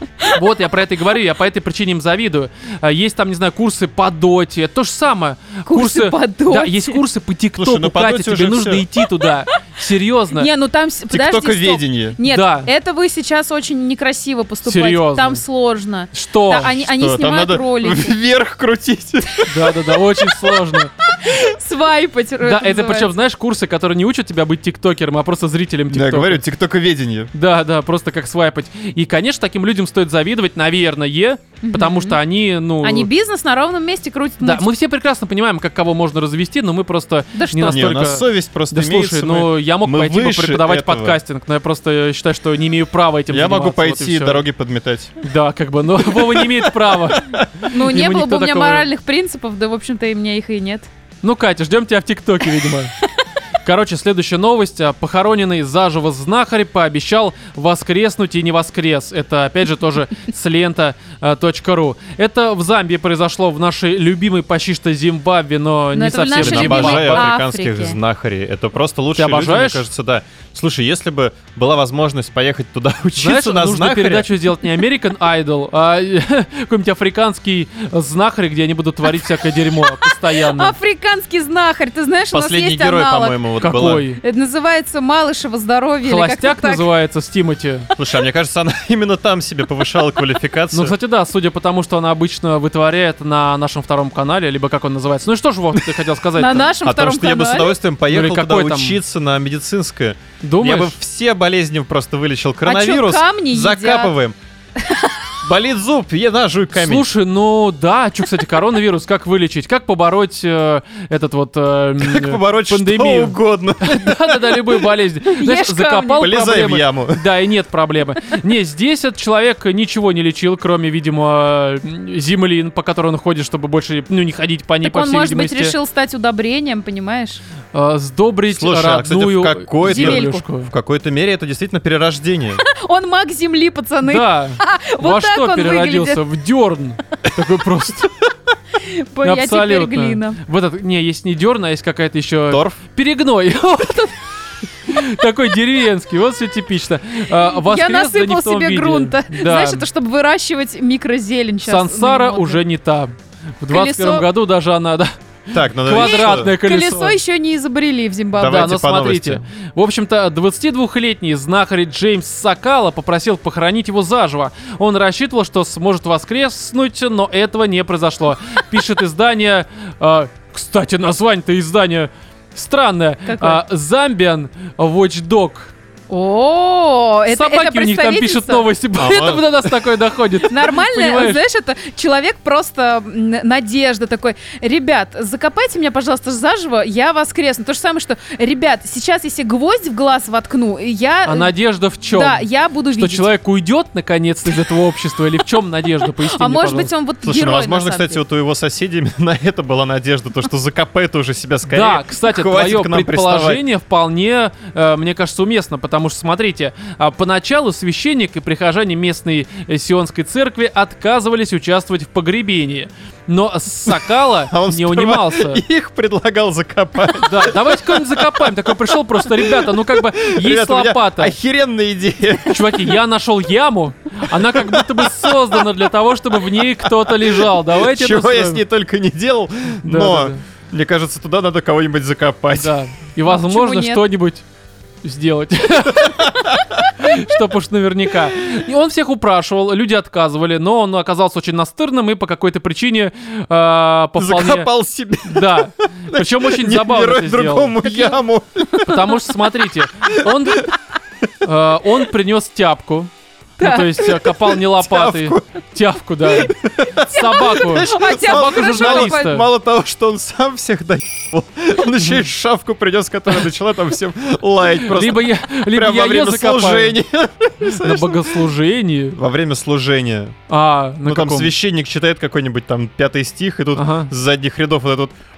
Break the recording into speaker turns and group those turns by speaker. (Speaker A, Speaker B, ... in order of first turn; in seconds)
Speaker A: 0.3-10.5, 12.2-12.7, 14.7-15.4, 16.1-16.8, 19.5-20.9, 22.4-26.4, 27.3-33.1, 34.4-44.4, 45.2-48.9, 51.2-52.9, 53.6-67.3, 69.2-69.9, 73.2-80.8, 83.6-84.2, 86.0-87.9, 90.7-96.7, 98.1-99.0, 100.4-101.0, 106.8-125.8, 127.7-130.7, 134.0-138.2, 139.2-144.1, 144.9-149.8, 151.7-157.2, 158.4-175.7, 177.3-181.4, 191.3-196.9, 201.7-215.6, 217.2-221.3, 222.5-228.6, 229.8-230.4, 232.6-234.4, 235.0-244.7, 245.2-247.8, 248.8-250.7, 251.4-259.5, 264.8-267.0, 267.7-269.2, 270.5-271.5, 273.8-274.1
Speaker B: 5.7-7.0, 10.3-18.1, 21.2-23.1, 31.6-32.2, 32.8-34.7, 37.3-37.9, 47.7-50.9, 65.9-68.0, 79.4-83.5, 84.2-86.8, 96.4-97.8, 102.6-104.1, 104.8-105.2, 115.3-116.3, 124.8-127.4, 129.8-130.4, 132.6-136.2, 138.8-140.4, 147.4-152.6, 153.7-154.3, 155.9-158.7, 173.3-173.6, 176.1-178.7, 180.5-191.5, 192.1-193.3, 196.2-198.2, 233.3-234.0, 247.8-248.2, 253.6-254.3, 257.1-259.4
Speaker C: 7.6-8.9, 11.1-12.2, 16.8-19.8, 25.9-27.3, 37.6-41.2, 43.3-45.1, 46.1-47.5, 66.3-74.3, 82.3-84.0, 88.0-90.9, 96.8-104.4, 105.4-107.1, 112.0-114.6, 116.2-117.2, 128.5-132.6, 142.5-142.8, 155.5-156.5, 158.3-159.4, 179.0-179.7, 197.2-203.6, 213.9-223.0, 224.3-225.8, 226.5-232.8, 236.0-236.8, 244.2-249.2, 250.1-250.7, 254.7-255.4, 256.4-268.5, 269.2-270.4, 271.0-275.2